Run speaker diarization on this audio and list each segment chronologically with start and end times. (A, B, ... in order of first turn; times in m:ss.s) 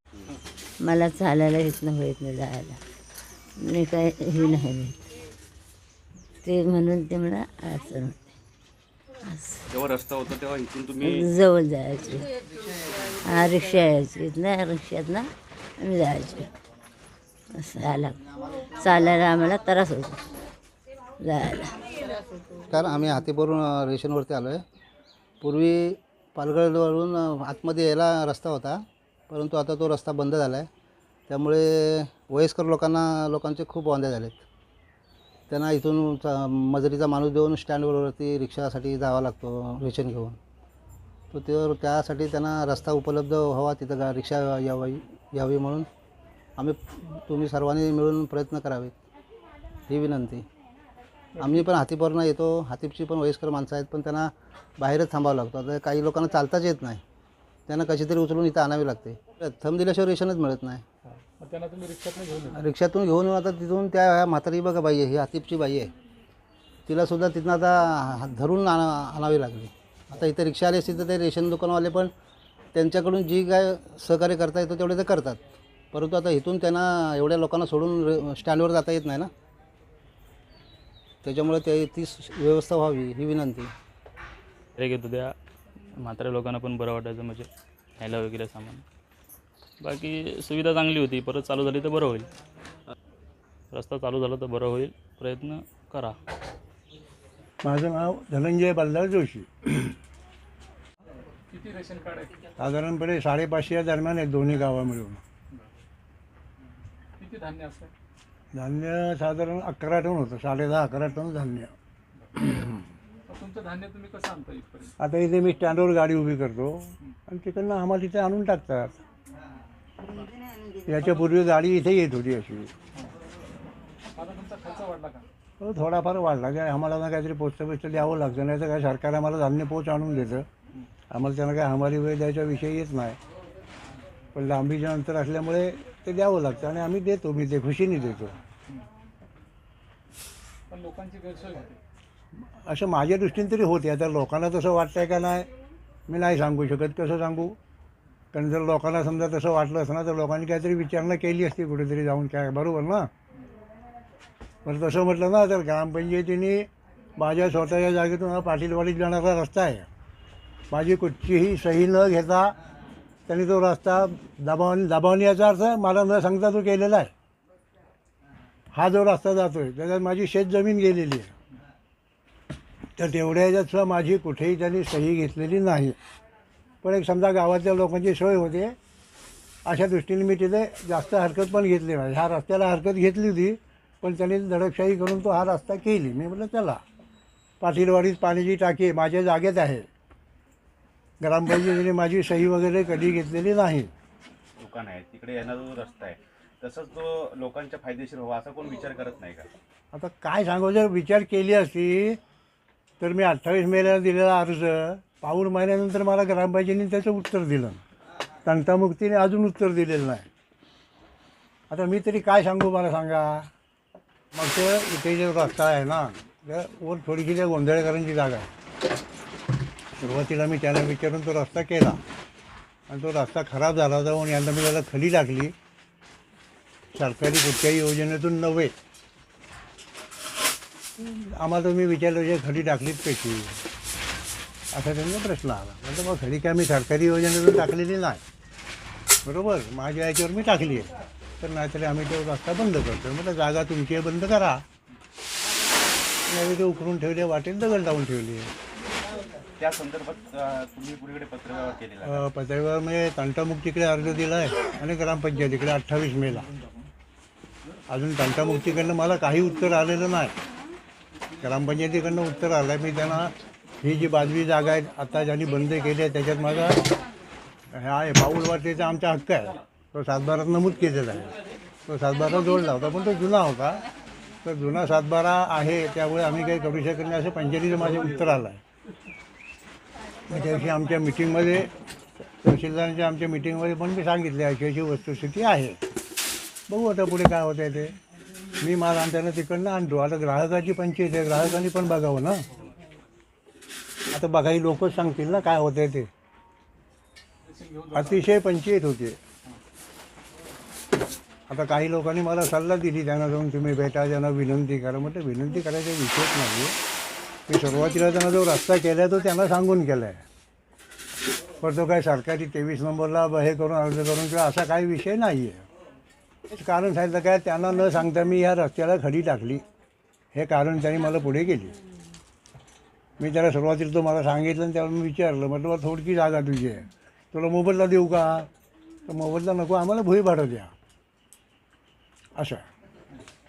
0:00.8-0:02.8 A
0:03.6-0:04.9 A
0:06.4-0:08.2 A
0:09.3-0:09.9 A
0:09.8-0:11.0 B
0:11.0-0:12.3 A
0:13.2-0:15.3 A
0:15.8-0:16.5 A
0:17.6-0:18.2 A
0:18.7-0:20.3 A
0:21.2-0:21.8 A
0:22.7-0:24.6 C
0:25.4-0:30.7 C
0:31.3-0:34.4 C
0:35.5-0:40.4 C
0:41.3-0:45.9 C
0:46.6-0:48.9 C
0:49.9-0:50.4 C
0:51.4-0:51.7 D
0:51.4-0:57.0 C
0:57.7-1:00.8 C
1:01.1-1:02.6 D
1:02.5-1:05.9 C
1:06.9-1:12.1 C
1:12.7-1:15.4 C
1:15.9-1:19.3 C
1:21.2-1:23.7 C
1:24.8-1:25.3 E
1:26.0-1:28.8 E
1:29.8-1:32.3 E
1:33.7-1:36.2 E
1:37.6-1:39.9 F
1:41.5-1:42.4 D
1:42.6-1:45.2 F
1:47.2-1:47.9 D
1:48.5-1:51.7 F
1:52.2-1:52.5 D
1:53.3-1:54.9 D
1:55.0-1:59.0 F
2:00.8-2:02.7 F
2:04.2-2:05.2 D
2:05.6-2:10.5 F
2:11.1-2:13.2 F
2:14.3-2:18.4 F
2:20.7-2:21.8 D
2:22.6-2:25.5 F
2:26.1-2:27.6 F
2:28.3-2:33.1 F
2:34.6-2:39.9 F
2:40.7-2:42.6 F
2:43.3-2:47.1 F
2:48.7-2:51.3 F
2:53.0-2:56.0 F
2:56.8-2:58.8 F
2:59.6-3:06.8 F
3:07.6-3:09.8 F
3:11.2-3:13.9 F
3:14.6-3:19.5 B
3:19.9-3:22.2 F
3:23.0-3:27.8 F
3:28.4-3:30.2 F
3:31.7-3:33.5 F
3:34.3-3:38.5 F
3:40.0-3:42.0 F
3:42.9-3:45.5 F
3:46.9-3:48.7 F
3:51.0-3:53.6 F
3:54.7-3:58.2 F
3:59.2-4:00.9 F
4:01.4-4:04.6 F
4:06.3-4:08.5 F
4:09.6-4:12.2 B
4:12.0-4:16.5 F
4:17.9-4:20.4 F
4:21.4-4:26.9 F
4:27.7-4:31.3 F
4:31.9-4:33.8 F
4:34.4-4:38.6 F
4:40.3-4:41.7 F
4:42.4-4:45.8 F
4:46.7-4:48.0 F
4:48.6-4:52.4 F
4:54.1-4:56.1 F
4:57.4-4:58.2 D
4:57.9-4:59.2 F
5:01.5-5:06.8 F
5:07.5-5:10.2 F
5:11.6-5:15.6 F
5:16.5-5:19.6 F
5:20.3-5:21.8 F
5:23.2-5:28.5 F
5:29.1-5:30.7 F
5:32.4-5:32.6 F